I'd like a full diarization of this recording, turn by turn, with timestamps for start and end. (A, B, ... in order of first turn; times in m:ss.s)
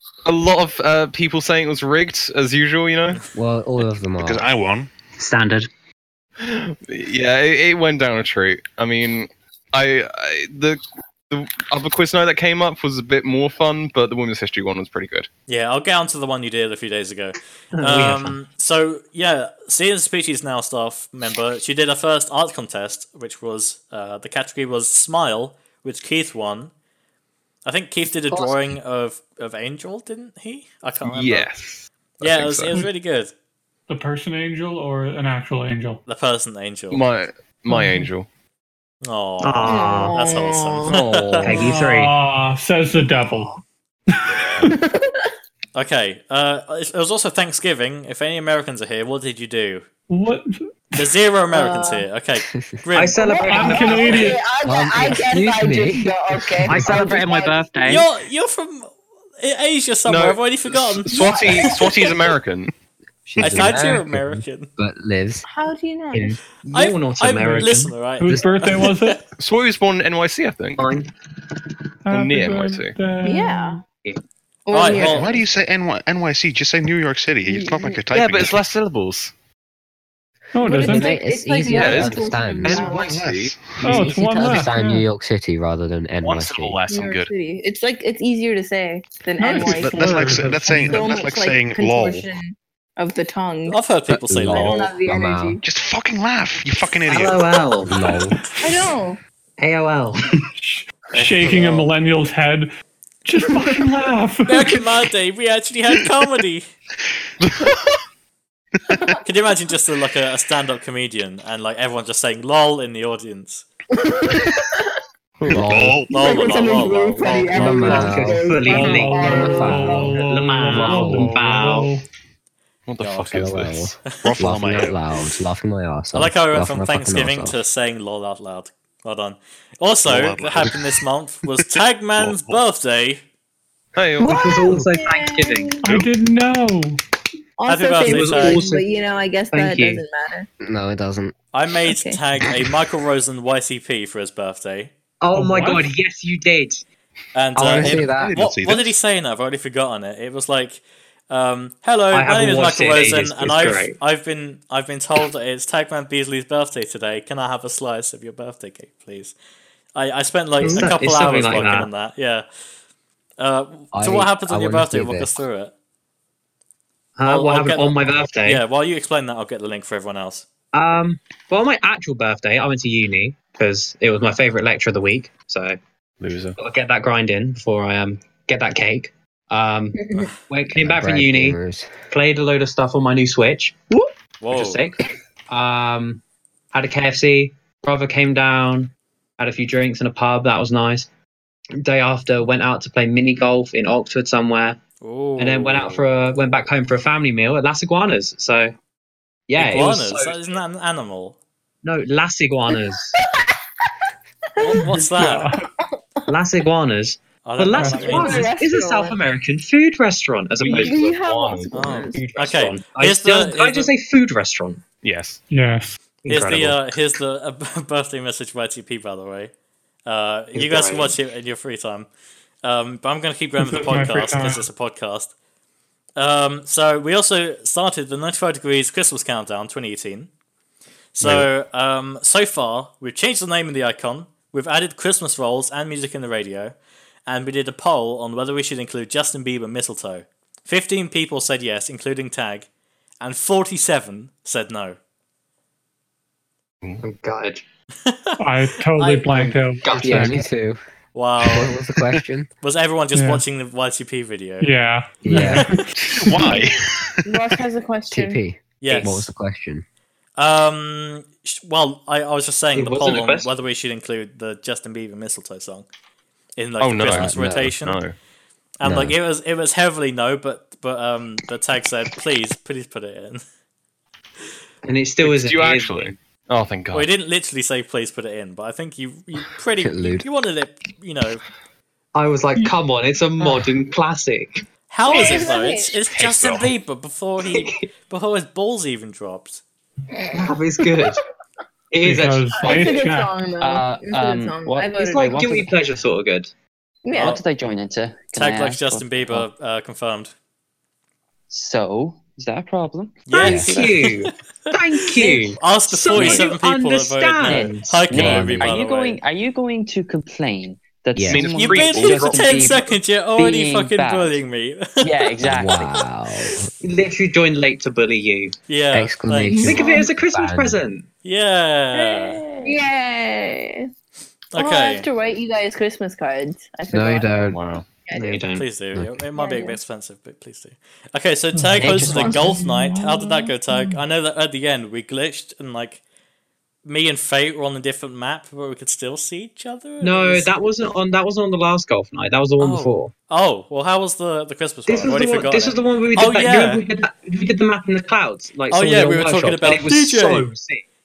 0:00.2-0:03.2 A
0:03.3-0:04.4 B
0:04.2-0:04.9 C
0:05.2-0:05.7 D
0:06.4-0:15.3 A
0:15.5-0:26.7 E
0:17.7-0:18.4 D
0:27.6-0:31.5 E
0:28.3-0:28.7 B
0:31.0-0:32.8 A
0:32.2-0:33.3 E
0:33.9-0:36.0 F
0:36.0-0:37.0 E
0:36.9-0:38.3 A
0:37.7-0:38.1 F
0:39.0-0:41.6 E
0:39.4-0:40.2 D
0:39.6-0:40.7 G
0:41.4-0:42.1 D
0:41.4-0:43.5 F
0:44.1-0:44.8 F
0:44.6-0:45.3 G
0:45.7-0:49.8 E
0:50.1-0:51.1 F
0:50.9-0:53.9 E
0:51.5-0:52.0 G
0:52.9-0:54.3 D
0:53.2-0:57.7 G
0:53.4-0:54.4 F
0:54.6-0:56.9 B
0:56.6-0:58.1 D
0:57.8-1:01.9 E
1:00.1-1:02.7 A
1:01.1-1:01.9 G
1:03.2-1:05.4 B
1:03.4-1:03.7 A
1:03.4-1:04.7 E
1:05.4-1:06.4 G
1:06.6-1:08.0 D
1:06.7-1:09.2 E
1:08.2-1:09.2 F
1:09.4-1:10.8 A
1:10.8-1:11.1 D
1:12.0-1:13.8 F
1:12.1-1:13.0 A
1:13.2-1:13.8 G
1:14.7-1:15.4 G
1:14.7-1:15.3 E
1:14.8-1:18.6 C
1:17.5-1:18.0 G
1:18.1-1:19.3 A
1:20.5-1:21.2 F
1:20.6-1:23.2 G
1:20.7-1:22.9 B
1:21.7-1:23.7 A
1:22.9-1:23.8 C
1:23.8-1:25.0 F
1:23.8-1:26.8 B
1:26.2-1:27.3 A
1:26.9-1:33.8 G
1:29.4-1:30.9 F
1:29.6-1:32.3 C
1:29.8-1:31.0 D
1:33.7-1:35.0 E
1:34.1-1:35.6 B
1:34.5-1:35.6 G
1:35.6-1:37.6 C
1:37.0-1:37.9 D
1:37.8-1:38.4 B
1:38.6-1:39.2 G
1:39.6-1:40.5 D
1:40.6-1:42.7 F
1:41.5-1:41.8 D
1:43.2-1:44.8 F
1:44.4-1:46.7 E
1:47.4-1:47.9 A
1:49.2-1:53.6 E
1:53.9-1:54.8 G
1:55.4-1:56.0 B
1:55.5-1:56.5 C
1:56.1-1:58.2 E
1:56.1-2:00.1 G
1:57.5-1:58.4 B
1:57.6-2:01.9 D
1:58.6-2:02.0 F
1:59.2-2:01.4 B
2:02.9-2:04.9 A
2:03.0-2:03.5 E
2:03.3-2:07.6 B
2:04.3-2:04.9 C
2:06.1-2:13.2 E
2:10.0-2:11.0 C
2:12.2-2:12.6 C
2:13.9-2:14.5 A
2:14.2-2:15.8 G
2:14.2-2:15.8 D
2:15.8-2:17.0 F
2:17.6-2:20.5 G
2:17.7-2:18.6 E
2:18.0-2:18.8 D
2:19.5-2:20.0 D
2:20.6-2:21.3 B
2:21.5-2:24.9 E
2:21.8-2:22.2 G
2:25.2-2:26.8 D
2:25.3-2:25.9 F
2:27.3-2:39.3 E
2:27.6-2:28.3 B
2:27.8-2:29.0 C
2:32.1-2:34.0 D
2:39.9-2:42.4 E
2:40.6-2:41.9 D
2:43.4-2:45.7 E
2:43.9-2:45.4 B
2:47.2-2:48.6 D
2:47.2-2:50.4 E
2:50.7-2:55.8 D
2:56.2-2:56.5 A
2:56.6-3:01.6 D
3:00.8-3:01.9 B
3:02.1-3:06.2 D
3:04.4-3:04.8 E
3:06.7-3:11.1 D
3:11.8-3:14.8 D
3:15.0-3:16.0 E
3:15.4-3:18.7 D
3:19.5-3:20.4 D
3:19.6-3:21.4 E
3:21.8-3:23.1 D
3:22.7-3:23.5 G
3:24.6-3:25.5 E
3:24.6-3:24.8 G
3:24.9-3:25.6 F
3:26.3-3:31.0 D
3:27.4-3:28.5 E
3:27.8-3:28.3 F
3:28.0-3:29.2 G
3:30.6-3:31.7 A
3:30.6-3:32.2 G
3:31.7-3:33.9 E
3:32.1-3:34.8 D
3:35.0-3:35.4 A
3:35.5-3:36.0 F
3:36.2-3:36.9 D
3:36.2-3:39.5 E
3:40.0-3:42.1 E
3:40.5-3:41.2 D
3:42.6-3:45.3 E
3:43.6-3:44.7 F
3:46.2-3:50.3 E
3:51.1-3:56.7 E
3:57.3-4:02.7 E
4:03.2-4:05.0 E
4:07.0-4:07.6 D
4:08.0-4:08.4 E
4:08.4-4:10.4 F
4:09.0-4:10.3 D
4:09.9-4:10.8 B
4:11.1-4:11.7 E
4:11.4-4:12.5 B
4:12.6-4:14.7 E
4:13.1-4:13.4 F
4:14.6-4:16.5 F
4:15.2-4:15.6 B
4:16.0-4:16.5 A
4:16.1-4:17.4 C
4:17.2-4:18.4 G
4:18.1-4:19.8 B
4:18.8-4:19.3 E
4:20.4-4:25.8 E
4:22.7-4:23.5 D
4:26.6-4:28.0 E
4:26.8-4:28.1 A
4:27.0-4:27.7 B
4:28.8-4:33.4 E
4:28.8-4:29.2 B
4:34.8-4:36.1 D
4:35.2-4:37.1 A
4:36.9-4:41.4 E
4:39.8-4:40.3 B
4:42.1-4:44.6 D
4:44.9-4:49.6 E
4:45.0-4:45.9 G
4:46.1-4:46.7 A
4:47.5-4:47.8 D
4:50.3-4:51.2 D
4:51.9-4:52.9 D
4:52.0-4:53.3 F
4:52.6-4:55.7 G
4:53.6-4:55.7 H
4:55.0-4:56.5 D
4:57.0-4:57.4 G
4:57.1-4:57.4 E
4:57.2-4:59.5 H
4:58.3-5:00.3 E
5:01.5-5:03.9 H
5:03.3-5:04.2 E
5:03.3-5:08.1 D
5:03.4-5:03.7 B
5:05.1-5:09.2 E
5:06.1-5:06.5 H
5:07.4-5:14.4 H
5:08.1-5:08.8 B
5:11.1-5:11.4 B
5:11.3-5:12.6 A
5:11.6-5:15.9 E
5:15.0-5:15.9 H
5:15.4-5:16.7 B
5:16.8-5:18.5 D
5:18.7-5:19.8 E
5:18.9-5:20.8 B
5:19.5-5:20.0 G
5:19.6-5:21.1 D
5:21.2-5:22.4 E
5:22.0-5:23.9 G
5:22.4-5:22.8 H
5:24.5-5:25.1 E
5:24.6-5:27.3 G
5:26.9-5:27.6 B
5:27.4-5:27.8 A
5:28.1-5:28.4 G
5:28.1-5:28.6 D
5:28.5-5:36.0 E
5:28.9-5:29.2 B
5:29.4-5:29.8 G
5:31.5-5:34.0 F
5:31.9-5:32.2 D
5:36.8-5:40.5 E
5:40.0-5:43.1 D
5:42.6-5:46.8 E
5:44.8-5:50.8 D
5:48.7-5:50.5 E